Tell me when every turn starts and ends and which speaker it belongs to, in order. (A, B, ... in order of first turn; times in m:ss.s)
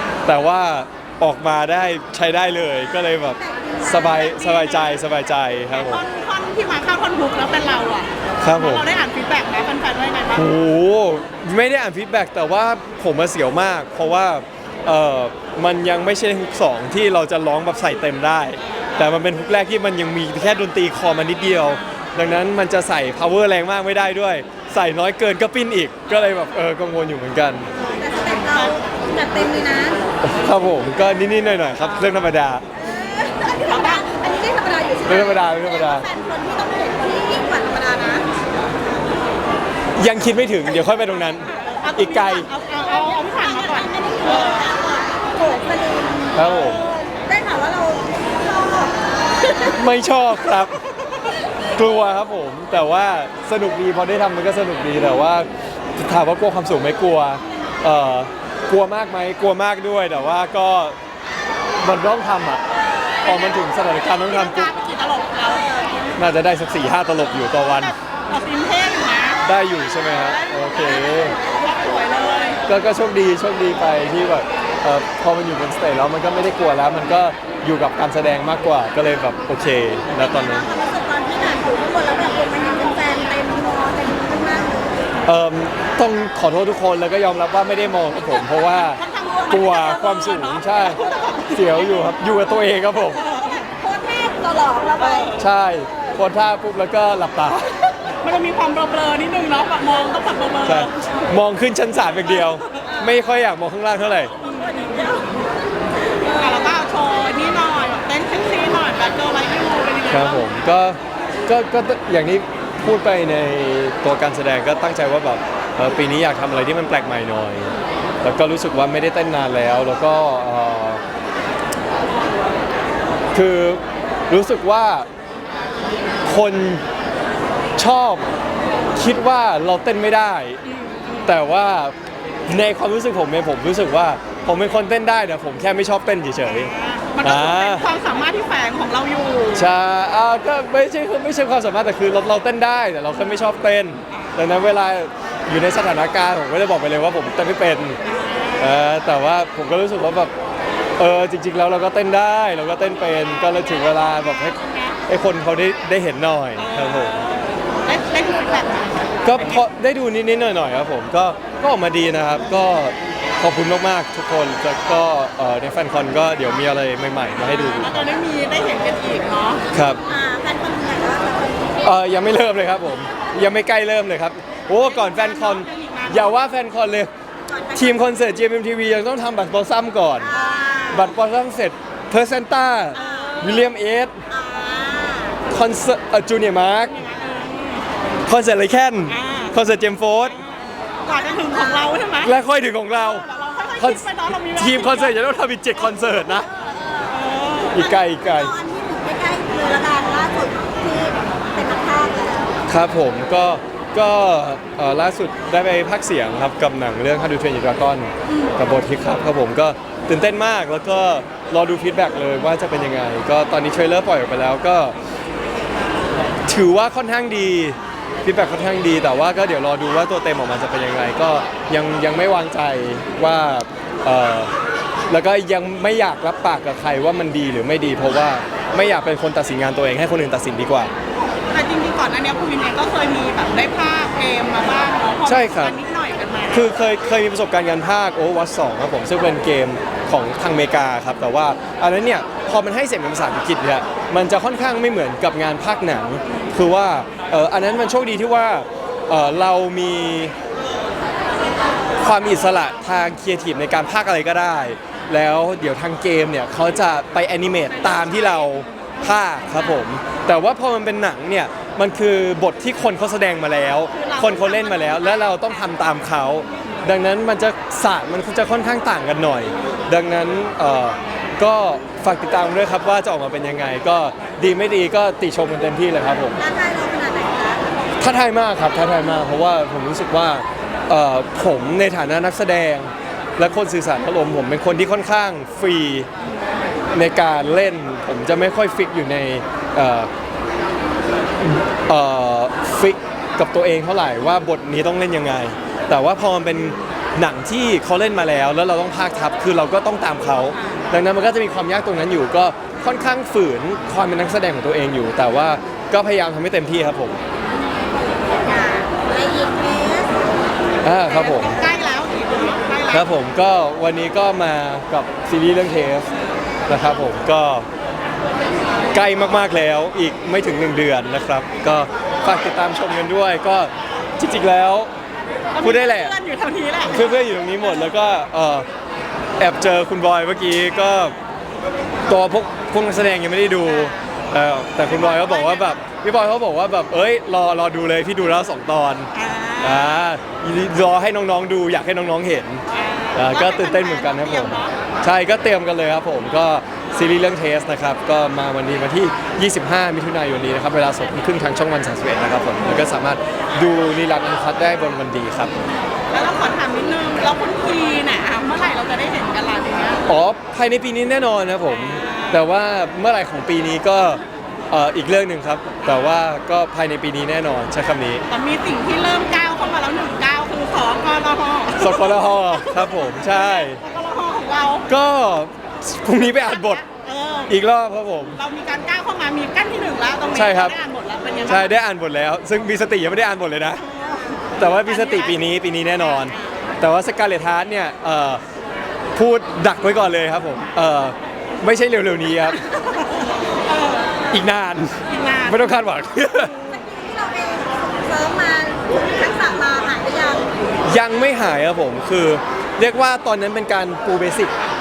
0:00.3-0:06.0 A
0:03.4-0:04.1 B
0:03.8-0:05.0 C
0:05.7-0:10.5 C
0:08.4-0:08.9 A
0:10.3-0:27.7 A
0:21.3-0:22.0 C
0:27.8-0:30.0 B
0:28.5-0:28.8 C
0:30.2-0:32.6 A
0:31.8-0:32.3 C
0:32.8-0:38.3 B
0:33.7-0:34.1 C
0:35.1-0:36.1 A
0:40.0-0:42.5 A
0:41.5-0:44.7 C
0:42.8-0:49.8 B
0:46.3-0:46.8 A
0:49.7-0:50.8 A
0:51.8-1:01.0 A
1:01.8-1:02.6 A
1:03.2-1:05.9 C
1:03.2-1:04.7 A
1:06.2-1:07.9 A
1:08.3-1:12.6 C
1:09.4-1:11.4 A
1:12.7-1:20.7 A
1:20.1-1:24.9 B
1:25.3-1:31.0 A
1:28.4-1:32.3 C
1:31.5-1:33.3 A
1:33.2-1:33.7 C
1:33.2-1:35.4 B
1:35.0-1:35.5 C
1:35.4-1:37.9 A
1:38.2-1:41.2 C
1:40.6-1:44.3 A
1:42.3-1:42.9 C
1:44.5-1:45.4 B
1:46.2-1:50.5 C
1:46.2-1:46.6 B
1:50.1-1:57.7 A
1:58.2-2:01.0 A
2:03.3-2:05.1 A
2:06.3-2:06.8 A
2:07.8-2:08.2 A
2:09.0-2:10.6 A
2:10.7-2:11.3 C
2:11.2-2:12.0 A
2:12.5-2:17.9 A
2:16.4-2:19.7 C
2:19.5-2:28.0 A
2:28.0-2:28.8 C
2:28.6-2:30.3 A
2:31.0-2:37.2 A
2:34.5-2:35.0 C
2:36.6-2:39.6 C
2:39.2-2:48.1 A
2:47.4-2:49.7 C
2:49.7-2:50.0 A
2:50.0-2:51.9 B
2:51.8-2:57.1 A
2:54.8-2:56.4 C
2:57.5-2:58.2 B
2:57.8-3:00.3 A
3:00.2-3:01.1 B
3:00.3-3:01.2 C
3:00.9-3:04.1 A
3:02.9-3:03.7 C
3:03.0-3:03.5 B
3:04.3-3:05.4 B
3:05.5-3:07.0 A
3:06.9-3:07.9 C
3:08.3-3:10.4 A
3:09.1-3:09.6 C
3:11.0-3:12.4 C
3:11.1-3:12.0 B
3:12.2-3:13.3 A
3:12.9-3:15.2 C
3:13.8-3:16.5 A
3:17.0-3:17.9 C
3:17.7-3:18.5 A
3:17.8-3:22.6 B
3:22.7-3:35.0 A
3:28.3-3:28.6 B
3:36.5-3:44.5 A
3:45.1-3:50.9 A
3:51.3-3:56.7 C
3:55.2-3:55.8 A
3:56.5-4:10.3 A
4:12.0-4:36.4 A
4:17.7-4:18.6 C
4:23.9-4:25.8 C
4:36.4-4:37.6 B
4:38.0-4:46.1 A
4:46.9-4:50.1 A
4:51.4-5:07.2 A
5:08.4-5:10.2 B
5:10.8-5:11.6 A
5:11.1-5:13.1 C
5:12.9-5:16.1 A
5:16.7-5:17.6 A
5:18.9-5:24.9 A
5:25.5-5:27.2 C
5:25.6-5:26.2 A
5:26.9-5:28.7 A
5:29.4-5:31.2 A
5:32.1-5:39.1 A
5:33.5-5:34.1 C
5:34.8-5:35.8 C
5:39.1-5:40.0 C
5:39.6-5:42.6 A
5:42.7-5:44.7 C
5:43.1-5:55.5 A
5:56.1-6:00.1 C
6:00.1-6:08.2 A
6:01.6-6:02.5 C
6:05.8-6:06.1 C
6:08.3-6:14.9 C
6:11.8-6:13.8 A
6:14.9-6:16.8 A
6:16.2-6:17.6 C
6:17.5-6:18.4 A
6:18.4-6:21.8 C
6:20.3-6:20.8 A
6:21.4-6:23.8 A
6:23.8-6:26.6 C
6:24.6-6:28.4 A
6:29.2-6:32.7 A
6:32.6-6:33.1 C
6:33.6-6:34.2 C
6:34.3-6:36.7 A
6:35.1-6:35.8 C
6:36.3-6:40.5 B
6:40.9-6:44.6 A